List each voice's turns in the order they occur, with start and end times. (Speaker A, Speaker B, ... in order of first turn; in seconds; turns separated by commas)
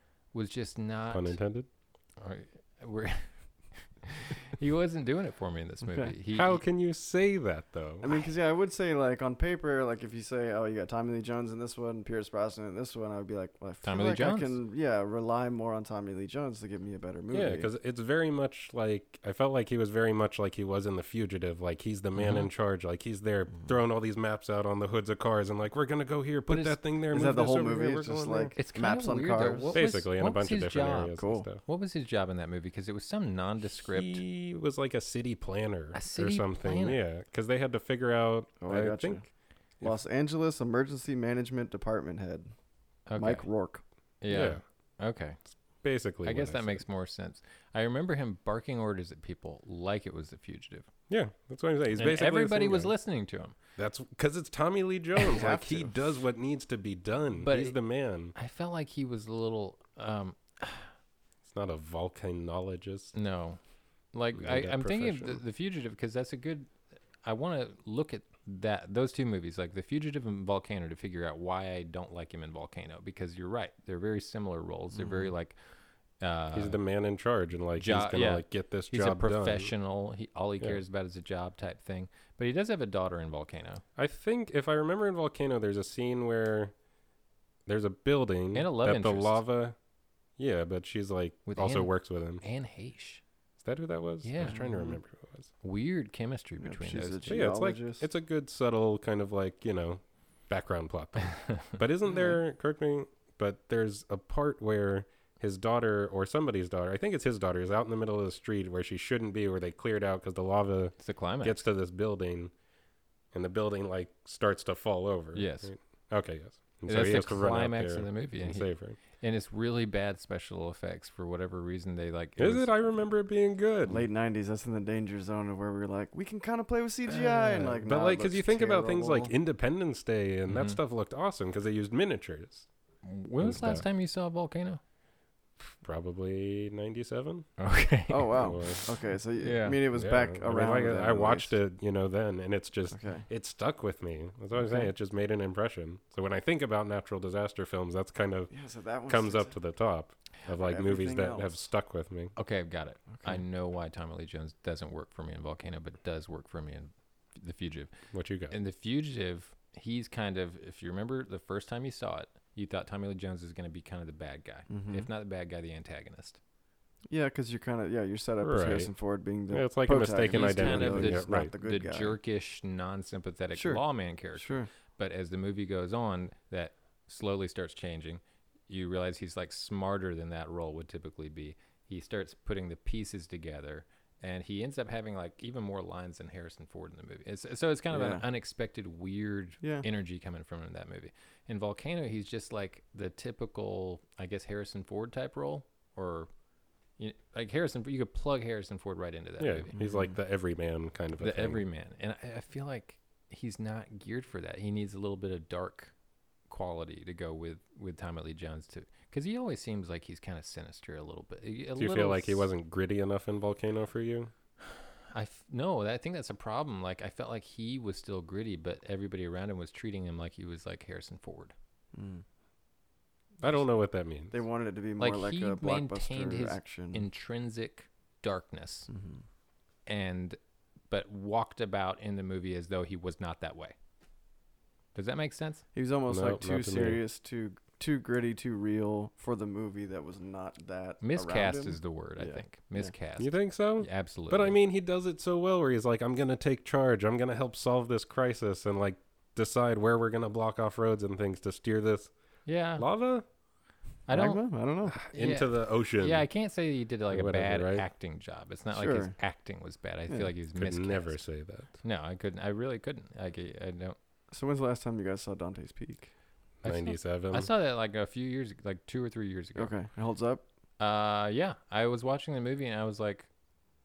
Speaker A: 0.3-1.4, Speaker B: 1.1-1.7, Speaker A: 2.2-6.6, Speaker C: 5.8-6.1, Speaker B: 6.3-8.1, Speaker C: 8.0-17.7, Speaker A: 13.8-14.6, Speaker B: 17.3-28.5, Speaker A: 22.2-22.5, Speaker A: 26.5-26.8, Speaker C: 27.1-29.8, Speaker A: 28.6-34.2, Speaker B: 29.7-31.6, Speaker C: 31.2-31.4, Speaker B: 33.8-39.2, Speaker A: 35.9-37.0, Speaker C: 38.6-39.3, Speaker C: 39.8-42.5, Speaker A: 43.1-43.5, Speaker C: 43.1-43.8, Speaker A: 44.2-45.4, Speaker B: 44.3-44.6, Speaker B: 45.8-46.8, Speaker A: 46.2-50.9, Speaker B: 51.1-52.9, Speaker A: 52.0-53.5, Speaker B: 53.8-58.3, Speaker C: 55.2-56.1, Speaker A: 57.4-57.8, Speaker A: 58.3-60.9, Speaker B: 61.5-63.1, Speaker A: 63.1-63.6, Speaker A: 64.1-66.7, Speaker B: 64.3-65.4, Speaker A: 67.2-75.6, Speaker C: 75.0-75.3, Speaker A: 76.2-76.8, Speaker B: 76.5-79.7, Speaker A: 77.8-83.8, Speaker B: 84.0-86.7, Speaker B: 87.7-89.8, Speaker A: 88.5-89.4, Speaker B: 90.4-92.4, Speaker A: 91.5-93.2, Speaker B: 93.6-95.5, Speaker A: 94.2-94.6, Speaker C: 94.5-95.0, Speaker A: 95.6-97.4, Speaker C: 96.6-98.1, Speaker B: 97.2-112.5, Speaker A: 101.4-101.7, Speaker C: 102.1-102.4, Speaker A: 111.0-111.6, Speaker B: 113.3-119.0, Speaker A: 115.3-115.7, Speaker A: 116.8-122.7, Speaker B: 122.4-124.0, Speaker C: 123.8-129.3, Speaker B: 127.2-132.7, Speaker A: 130.5-130.8, Speaker A: 133.0-134.8, Speaker B: 133.4-133.8, Speaker B: 135.8-137.5, Speaker A: 137.6-138.5, Speaker C: 138.1-141.5, Speaker B: 138.3-138.9, Speaker A: 139.4-139.8, Speaker B: 139.9-152.3, Speaker C: 142.9-143.3, Speaker C: 144.6-144.9, Speaker C: 148.5-149.6, Speaker C: 150.5-151.6, Speaker A: 152.3-157.9, Speaker C: 153.1-153.4, Speaker B: 158.1-158.5, Speaker A: 158.5-166.4, Speaker C: 164.7-165.1, Speaker C: 167.1-172.2, Speaker B: 168.4-168.9, Speaker B: 169.5-171.5, Speaker A: 170.3-196.3, Speaker C: 173.5-173.8, Speaker C: 174.3-174.7, Speaker C: 187.9-188.2, Speaker C: 189.6-189.8, Speaker A: 197.0-199.7, Speaker B: 199.4-201.6, Speaker C: 199.8-200.1, Speaker A: 201.2-205.9, Speaker A: 206.5-212.5, Speaker B: 211.8-214.3, Speaker A: 214.7-221.5, Speaker C: 221.9-222.2, Speaker B: 223.4-224.3, Speaker C: 224.3-227.0, Speaker A: 225.0-228.9, Speaker C: 228.9-229.2, Speaker A: 229.9-230.4, Speaker A: 230.9-233.8, Speaker A: 234.9-235.6, Speaker C: 235.7-242.9, Speaker B: 236.1-237.0, Speaker A: 241.0-244.6, Speaker B: 243.2-252.1, Speaker A: 252.4-252.8, Speaker B: 252.8-253.2, Speaker A: 254.1-254.4, Speaker C: 254.1-255.0, Speaker B: 254.9-256.3, Speaker A: 255.1-261.2, Speaker B: 257.1-257.8, Speaker C: 258.7-259.1, Speaker B: 260.5-261.7, Speaker A: 261.8-263.9, Speaker C: 264.3-266.1, Speaker B: 266.6-267.5, Speaker A: 266.6-269.7, Speaker C: 269.6-270.4, Speaker A: 270.8-273.3